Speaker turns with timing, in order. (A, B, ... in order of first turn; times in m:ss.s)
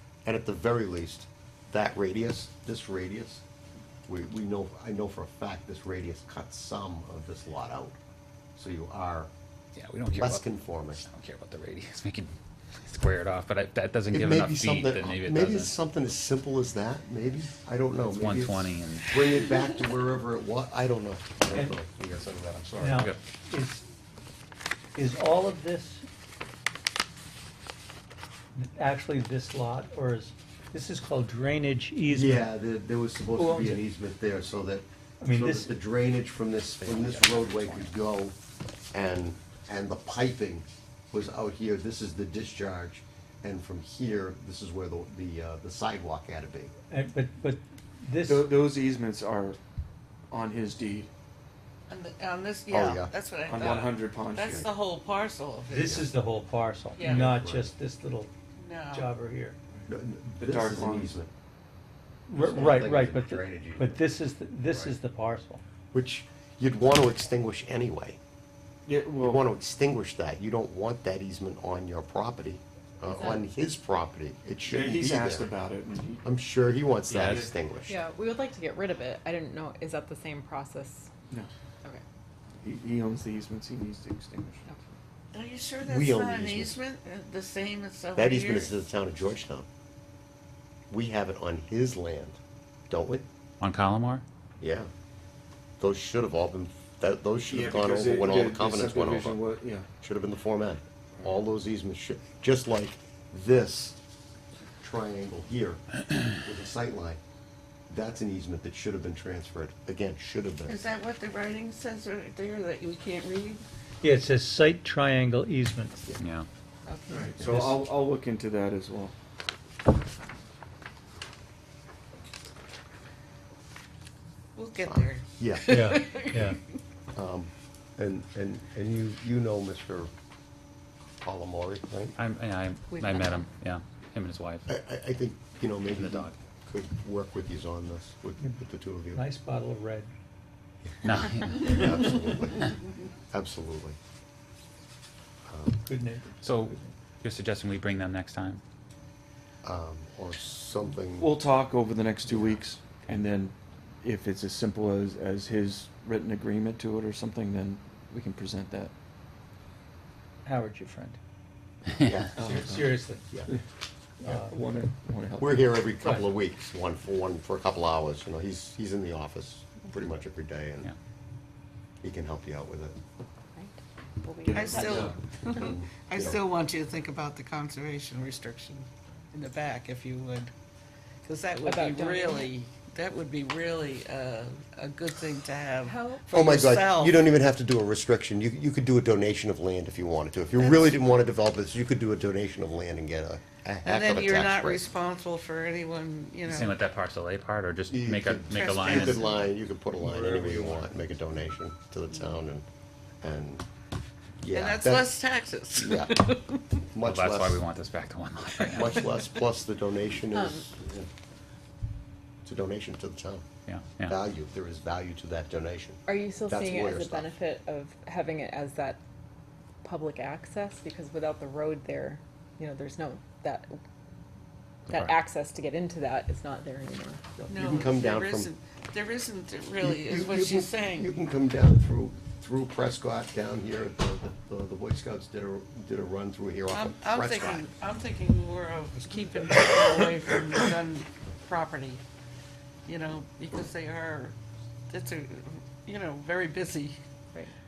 0:00.2-0:03.4 A
0:04.1-0:08.0 A
0:08.6-0:09.3 A
0:09.8-0:15.8 B
0:10.1-0:11.0 A
0:14.1-0:23.1 A
0:18.0-0:19.4 B
0:22.8-0:23.9 C
0:24.9-0:26.0 C
0:28.6-0:32.5 C
0:32.1-0:38.4 A
0:33.4-0:33.8 C
0:35.2-0:35.7 C
0:36.8-0:37.9 B
0:38.9-0:46.7 A
0:46.9-0:48.5 C
0:48.2-0:49.6 D
0:50.3-0:51.1 D
0:51.9-0:56.1 E
0:52.7-0:53.1 A
0:53.5-0:54.7 D
0:55.7-0:58.3 C
0:55.8-0:56.1 A
0:57.0-0:57.3 E
0:57.0-0:57.7 A
0:58.6-0:59.2 E
0:58.9-0:59.6 C
0:59.9-1:01.3 A
1:00.4-1:01.1 D
1:02.3-1:05.6 C
1:02.3-1:04.0 A
1:04.7-1:04.9 A
1:05.9-1:08.2 A
1:08.8-1:09.4 D
1:09.2-1:15.5 A
1:13.1-1:13.4 F
1:14.6-1:16.3 D
1:16.2-1:18.0 A
1:17.1-1:17.4 B
1:17.9-1:21.1 F
1:22.6-1:24.9 D
1:25.3-1:28.7 E
1:25.8-1:26.8 A
1:28.1-1:29.7 A
1:30.9-1:33.2 A
1:33.6-1:34.2 B
1:34.6-1:34.9 A
1:35.8-1:39.4 A
1:37.5-1:39.9 D
1:40.0-1:44.0 A
1:44.8-1:47.2 A
1:47.9-1:50.8 A
1:50.7-1:53.6 E
1:54.0-1:56.0 C
1:56.2-1:56.4 B
1:56.8-1:57.4 E
1:57.1-1:59.1 D
1:57.5-1:57.7 C
2:04.6-2:06.6 E
2:04.8-2:06.0 A
2:05.7-2:06.6 C
2:07.1-2:10.1 A
2:11.2-2:12.2 A
2:12.2-2:14.6 B
2:12.9-2:13.5 E
2:14.7-2:19.3 A
2:15.8-2:16.3 B
2:19.1-2:20.1 C
2:21.0-2:21.9 B
2:21.5-2:22.8 A
2:23.3-2:24.0 A
2:25.5-2:25.8 A
2:25.8-2:26.3 C
2:26.4-2:28.6 B
2:29.6-2:31.3 A
2:31.2-2:38.9 D
2:32.3-2:32.6 A
2:40.4-2:41.2 C
2:42.0-2:42.6 A
2:42.4-2:43.6 D
2:42.4-2:43.3 C
2:44.2-2:45.9 D
2:44.2-2:44.6 C
2:45.4-2:50.9 A
2:52.0-2:53.0 A
2:53.6-2:55.1 F
2:54.4-2:55.2 D
2:54.5-3:00.5 E
2:54.8-2:56.4 A
3:01.2-3:07.2 E
3:01.6-3:02.5 F
3:05.8-3:06.2 F
3:06.3-3:14.9 A
3:13.8-3:16.7 E
3:16.5-3:19.4 B
3:17.9-3:22.6 A
3:18.6-3:19.3 E
3:23.2-3:23.6 A
3:24.4-3:25.2 A
3:24.5-3:26.6 E
3:25.7-3:26.1 A
3:26.9-3:27.6 A
3:27.0-3:29.1 B
3:28.7-3:31.1 A
3:30.3-3:30.7 F
3:32.4-3:33.4 A
3:33.7-3:34.2 B
3:34.0-3:37.3 A
3:36.1-3:39.0 F
3:39.8-3:43.8 F
3:44.9-3:47.4 F
3:44.9-3:45.1 A
3:47.5-3:51.1 E
3:47.5-3:48.5 A
3:49.8-3:57.6 A
3:56.7-4:02.0 E
4:02.9-4:04.3 E
4:04.9-4:07.0 E